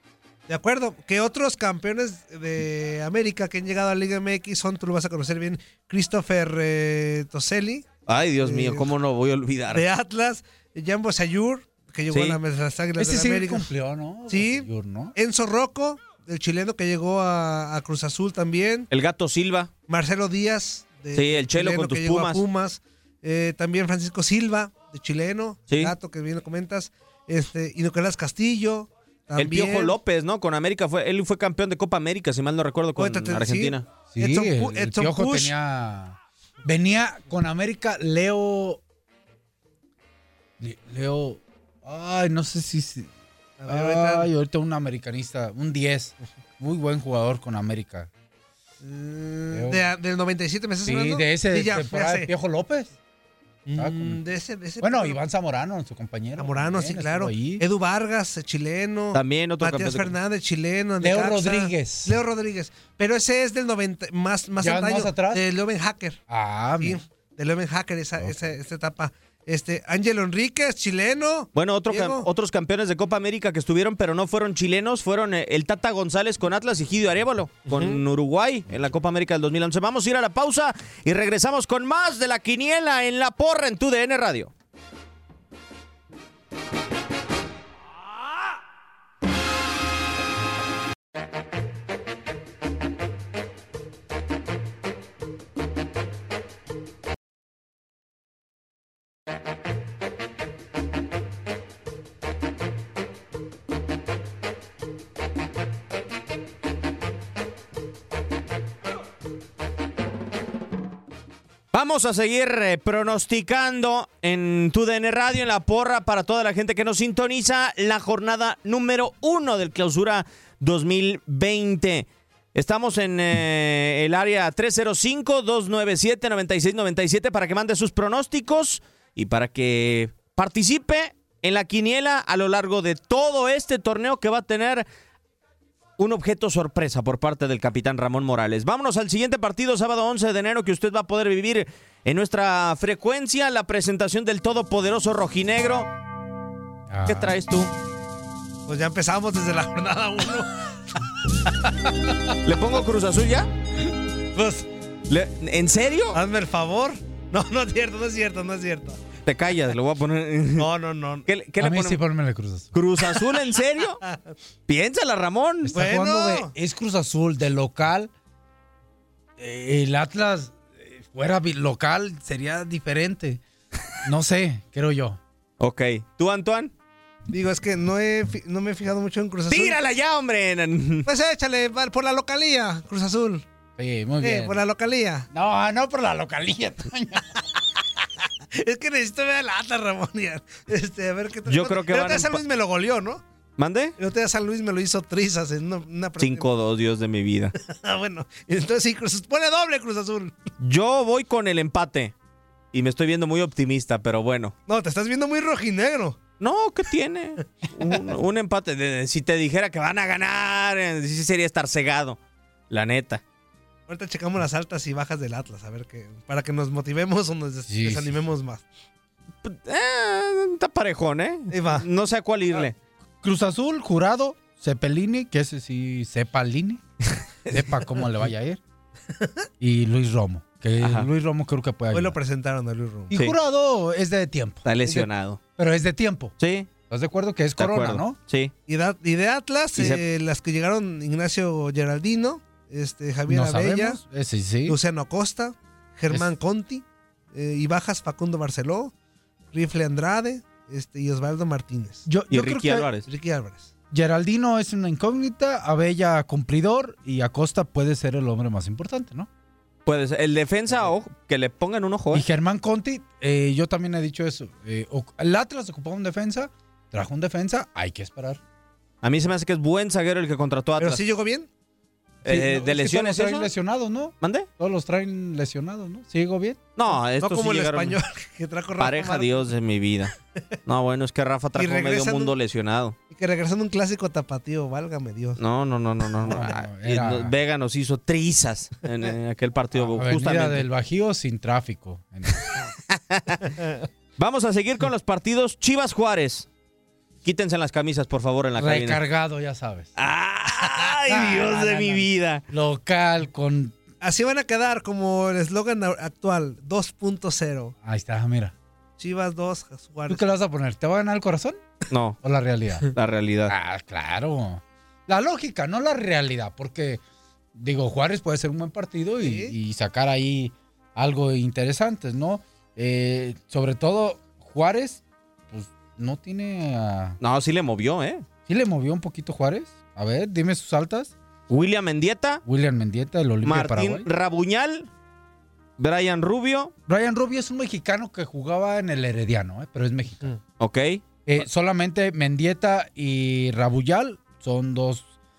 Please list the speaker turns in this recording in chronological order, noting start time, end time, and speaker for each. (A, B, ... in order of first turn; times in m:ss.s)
0:00.5-0:07.9 A
0:08.1-0:09.8 B
0:08.4-0:08.9 A
0:09.7-0:13.7 A
0:12.1-0:12.4 B
0:13.0-0:15.2 C
0:14.3-0:18.9 A
0:18.9-0:19.7 B
0:19.9-0:30.0 A
0:21.1-0:22.4 B
0:29.4-0:33.9 B
0:33.0-0:35.5 A
0:34.1-0:38.8 C
0:40.6-0:43.1 C
0:43.6-0:44.3 A
0:43.7-0:48.1 C
0:48.8-0:52.3 A
0:49.5-0:49.8 C
0:50.8-0:52.9 C
0:53.6-0:55.2 A
0:53.8-0:54.2 C
0:54.8-0:57.6 C
0:56.4-1:06.2 A
0:59.1-1:00.1 B
1:01.0-1:02.2 C
1:04.6-1:05.4 C
1:06.3-1:07.0 C
1:06.8-1:12.3 A
1:08.2-1:08.6 C
1:11.6-1:24.5 B
1:17.7-1:18.0 A
1:51.7-2:14.9 B
2:16.0-2:25.9 B
2:26.9-2:27.4 C
2:27.1-2:27.7 B
2:28.7-2:30.5 A
2:32.4-2:33.5 B
2:34.4-2:34.6 A
2:35.1-2:36.2 B
2:36.1-2:39.0 A
2:39.2-2:40.6 B
2:40.6-2:41.3 A
2:41.3-2:42.0 B
2:41.6-2:42.7 C
2:42.7-2:44.0 B
2:44.0-2:44.3 A
2:44.7-2:45.8 B
2:45.6-2:48.1 C
2:45.7-2:46.5 A
2:49.4-2:53.4 C
2:54.0-2:55.2 C
2:55.6-2:56.7 B
2:57.3-2:59.8 A
2:59.5-3:01.1 B
3:01.1-3:03.4 A
3:03.8-3:04.6 C
3:04.2-3:05.3 A
3:05.3-3:07.4 C
3:08.5-3:13.2 A
3:11.5-3:12.4 B
3:13.6-3:14.0 B
3:14.0-3:16.5 A
3:16.2-3:17.5 B
3:17.6-3:20.3 A
3:20.6-3:22.1 B
3:22.7-3:24.5 B
3:24.7-3:26.2 A
3:26.4-3:32.2 B
3:32.7-3:33.2 B
3:33.9-3:38.6 A
3:37.7-3:38.1 C
3:39.4-3:42.8 B
3:41.5-3:41.9 A
3:43.2-3:46.8 C
3:47.5-3:48.6 C
3:49.6-3:52.2 C
3:50.8-3:51.1 B
3:51.9-3:53.1 A
3:53.1-3:55.0 C
3:54.6-3:55.4 B
3:55.6-3:56.4 C
3:56.4-3:56.7 B
3:56.9-3:58.2 C
3:57.6-3:58.5 B
3:58.7-4:04.0 A
3:59.8-4:00.0 B
4:03.3-4:04.8 C
4:04.6-4:08.9 A
4:09.5-4:12.1 A
4:12.1-4:12.9 C
4:12.3-4:13.1 B
4:13.1-4:13.7 A
4:13.9-4:19.3 C
4:19.9-4:22.2 B
4:22.1-4:28.4 C
4:29.0-4:31.0 B
4:30.8-4:31.5 A
4:32.2-4:33.5 B
4:32.3-4:36.6 C
4:34.2-4:34.5 B
4:36.8-4:38.0 B
4:37.2-4:39.5 A
4:38.8-4:40.1 B
4:40.6-4:43.0 B
4:41.6-4:42.3 A
4:43.1-4:45.4 A
4:45.4-4:50.7 B
4:46.2-4:47.3 C
4:49.8-4:52.5 C
4:52.9-4:53.4 B
4:54.2-4:56.5 B
4:57.2-4:59.0 B
4:58.6-4:59.9 C
5:00.0-5:02.4 B
5:01.1-5:03.8 C
5:04.0-5:07.8 A
5:07.8-5:08.5 C
5:09.0-5:10.3 A
5:10.1-5:11.6 C
5:11.9-5:12.2 B
5:12.2-5:12.9 C
5:12.9-5:13.5 B
5:13.5-5:17.0 C
5:17.5-5:27.2 C
5:19.2-5:19.6 A
5:27.2-5:28.2 B
5:28.5-5:31.1 C
5:31.5-5:32.4 B
5:32.4-5:34.1 C
5:33.4-5:34.9 B
5:35.8-5:36.7 B
5:36.9-5:40.3 C
5:40.6-5:41.0 B
5:41.3-5:45.1 C